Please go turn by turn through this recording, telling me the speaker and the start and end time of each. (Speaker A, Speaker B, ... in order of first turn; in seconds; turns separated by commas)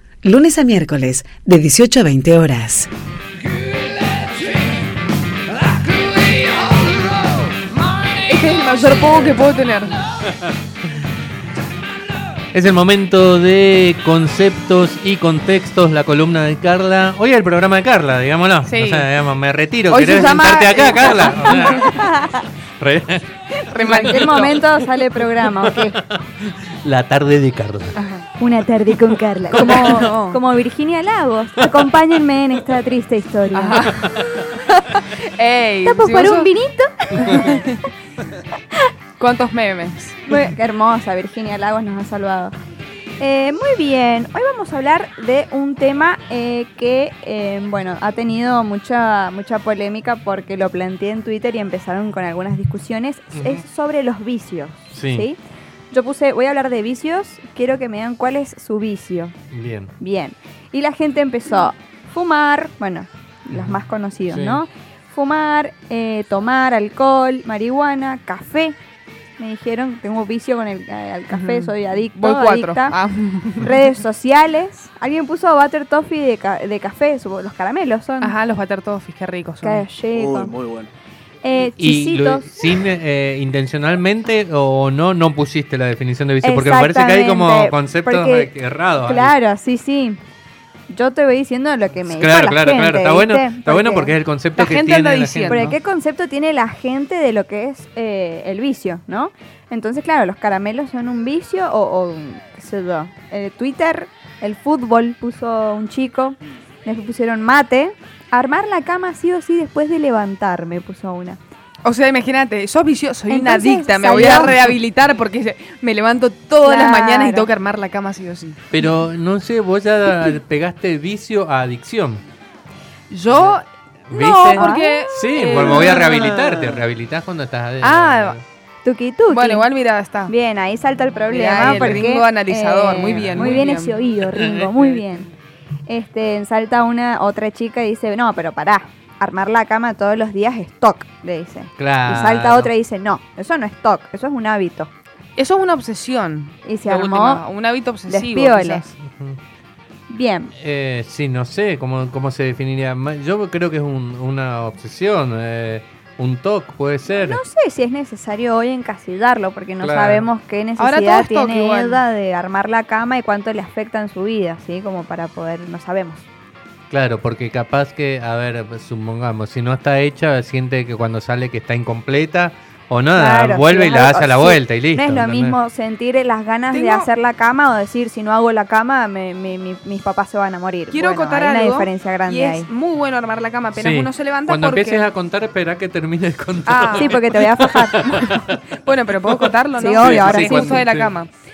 Speaker A: 0.4-2.8, Speaker B: 8.2-10.0, Speaker C: 12.5-22.1, Speaker B: 18.6-19.1, Speaker B: 19.9-21.9, Speaker D: 21.4-22.4, Speaker C: 22.8-23.2, Speaker D: 23.6-26.0, Speaker B: 23.7-24.6, Speaker C: 25.4-27.9, Speaker B: 27.9-28.2, Speaker D: 28.4-33.9, Speaker B: 29.5-30.4, Speaker B: 33.5-36.5, Speaker D: 35.8-37.6, Speaker B: 37.1-37.8, Speaker B: 39.2-40.2, Speaker D: 40.3-42.5, Speaker D: 43.2-55.4, Speaker C: 53.3-53.6, Speaker C: 54.9-55.3, Speaker D: 55.9-59.3, Speaker C: 59.5-59.9, Speaker D: 60.0-68.8, Speaker C: 63.5-64.6, Speaker D: 69.4-72.9, Speaker B: 71.3-73.8, Speaker D: 73.6-78.3, Speaker B: 78.2-79.8, Speaker D: 79.6-80.5, Speaker E: 80.1-80.9, Speaker D: 81.4-82.7, Speaker C: 81.8-89.3, Speaker D: 86.4-90.2, Speaker D: 90.9-94.2, Speaker C: 92.0-95.7, Speaker B: 94.5-95.8, Speaker D: 95.5-111.4, Speaker B: 111.8-118.6, Speaker D: 113.3-114.6, Speaker D: 116.6-117.5, Speaker C: 118.7-122.2, Speaker B: 123.1-126.3, Speaker C: 124.1-128.4, Speaker D: 124.5-125.2, Speaker E: 125.6-126.8, Speaker B: 127.8-128.4, Speaker D: 128.8-129.7, Speaker B: 129.3-130.3, Speaker D: 130.3-135.3, Speaker B: 131.3-134.0, Speaker C: 131.6-132.1, Speaker C: 133.1-133.7, Speaker C: 134.3-134.7, Speaker D: 135.9-144.9, Speaker C: 141.8-142.7, Speaker B: 145.4-148.9, Speaker D: 146.6-147.4, Speaker D: 148.1-148.8, Speaker C: 149.0-149.4, Speaker D: 150.1-150.5, Speaker C: 150.6-157.4, Speaker D: 157.1-166.2, Speaker C: 159.8-160.3, Speaker B: 160.8-162.0, Speaker C: 166.9-175.6, Speaker D: 173.1-182.7, Speaker B: 176.7-177.1, Speaker B: 180.9-185.1, Speaker C: 183.7-188.6, Speaker B: 186.7-187.2, Speaker D: 186.9-188.4, Speaker B: 188.4-191.3, Speaker D: 189.8-190.8, Speaker C: 190.0-191.1